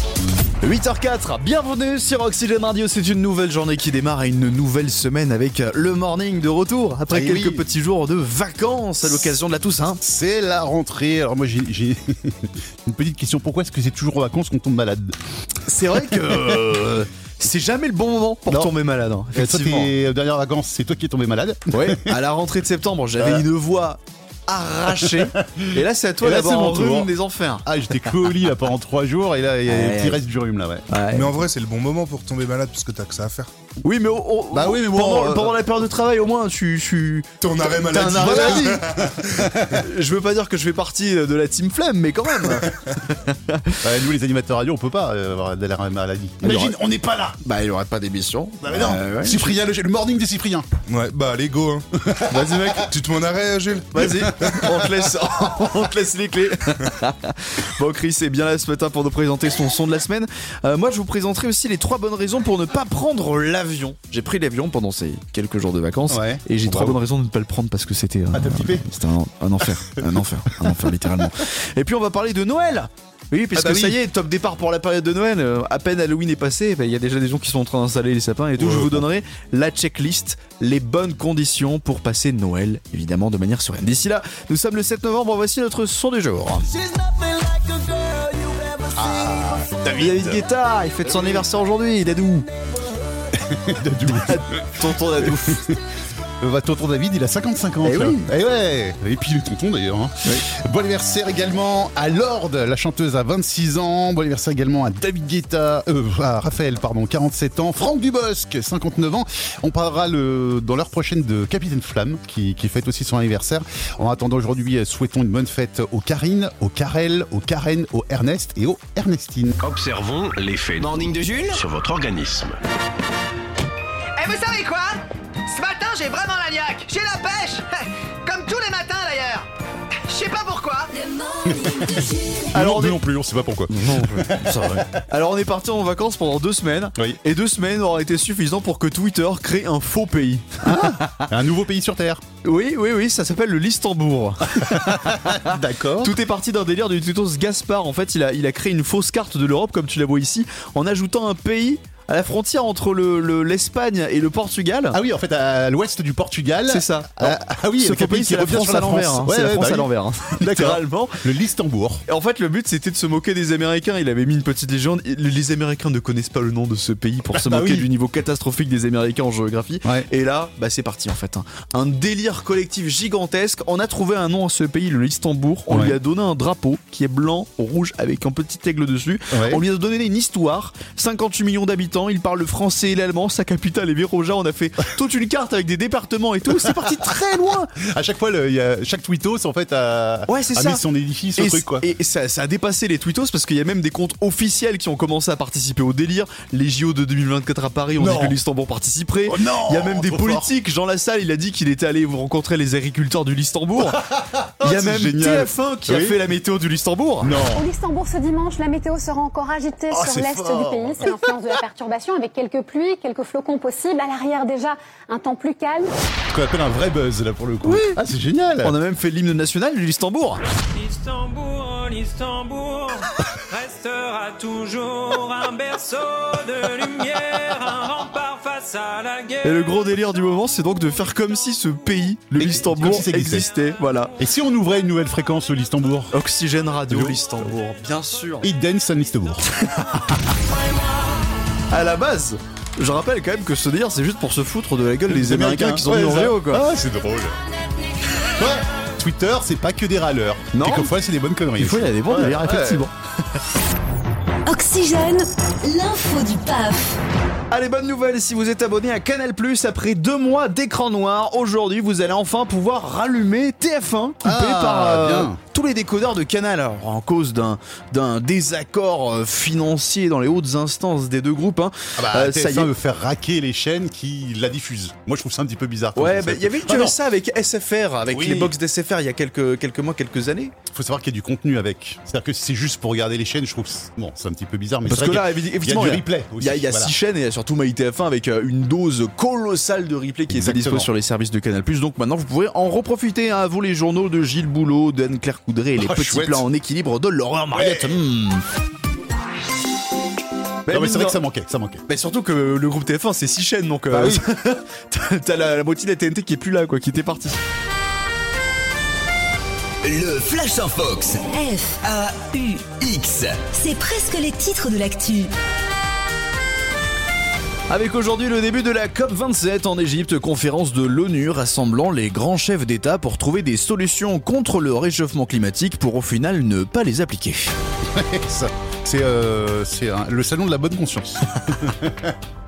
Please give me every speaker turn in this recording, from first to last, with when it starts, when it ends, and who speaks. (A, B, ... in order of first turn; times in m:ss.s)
0:00.6-0:10.0 A
0:07.1-0:07.7 B
0:10.0-0:15.2 B
0:15.7-0:20.0 A
0:18.5-0:18.8 B
0:19.3-0:22.2 B
0:21.7-0:27.7 A
0:23.2-0:23.5 B
0:25.0-0:27.1 B
0:27.6-0:30.9 B
0:29.7-0:30.2 A
0:30.9-0:31.3 A
0:31.1-0:33.5 C
0:33.8-0:38.8 A
0:34.5-0:35.6 B
0:37.4-0:39.5 C
0:38.1-0:39.8 B
0:39.7-0:43.8 A
0:43.8-0:47.4 B
0:46.4-0:46.7 A
0:47.4-0:49.5 A
0:48.6-0:50.7 B
0:50.9-0:51.8 C
0:52.0-0:52.7 B
0:52.3-0:52.9 A
0:52.9-0:54.0 C
0:53.9-1:26.7 A
0:54.2-0:54.9 B
1:06.1-1:07.0 B
1:08.3-1:08.9 B
1:09.8-1:10.1 B
1:10.6-1:10.9 B
1:13.6-1:14.0 B
1:18.6-1:19.0 B
1:29.0-1:30.4 B
1:29.9-1:32.5 A
1:33.3-1:35.8 B
1:33.9-1:35.7 A
1:36.4-1:59.6 B
1:37.8-1:38.3 A
1:59.6-2:02.6 D
2:00.8-2:01.6 E
2:04.2-2:09.5 F
2:10.1-2:10.9 F
2:10.9-2:12.5 G
2:12.5-2:14.9 B
2:12.5-2:13.0 A
2:13.7-2:21.3 A
2:20.6-2:22.2 B
2:22.4-2:35.0 A
2:24.6-2:26.2 B
2:34.9-2:42.0 B
2:36.7-2:41.2 A
2:42.1-3:07.7 A
2:47.3-2:47.9 B
2:55.7-2:56.0 B
2:59.3-2:59.6 B
3:06.6-3:07.2 B
3:07.7-3:11.9 B
3:10.3-3:10.8 A
3:11.4-3:24.0 A
3:18.0-3:18.4 B
3:19.3-3:20.5 B
3:23.8-3:26.2 B
3:24.6-3:27.4 A
3:27.2-3:27.7 B
3:27.5-3:35.9 H
3:29.9-3:31.2 B
3:36.3-3:38.8 B
3:37.6-3:38.0 A
3:38.6-3:40.4 A
3:40.7-3:49.7 I
3:49.4-3:54.1 A
3:52.4-3:53.5 B
3:54.2-3:56.2 B
3:56.1-3:58.5 A
3:56.9-3:57.2 B
3:58.4-3:59.5 B
4:01.7-4:06.6 A
4:05.1-4:07.4 B
4:08.2-4:12.8 B
4:10.5-4:10.9 A
4:11.6-4:12.9 A
4:14.5-4:17.0 G
4:17.5-4:32.7 A
4:24.2-4:25.4 B
4:32.0-4:37.0 B
4:36.0-4:40.5 A
4:38.1-4:38.5 B
4:40.7-4:46.9 B
4:44.9-4:58.4 A
4:50.3-4:50.9 B
4:55.8-4:56.5 B
4:57.6-4:58.0 B
5:00.7-5:01.2 A
5:00.7-5:01.8 B
5:01.9-5:07.4 A
5:03.9-5:04.2 B
5:09.8-5:11.2 E
5:11.3-5:11.8 G
5:11.8-5:13.4 E
5:13.5-5:15.3 G
5:17.7-5:27.5 A
5:27.9-5:32.2 B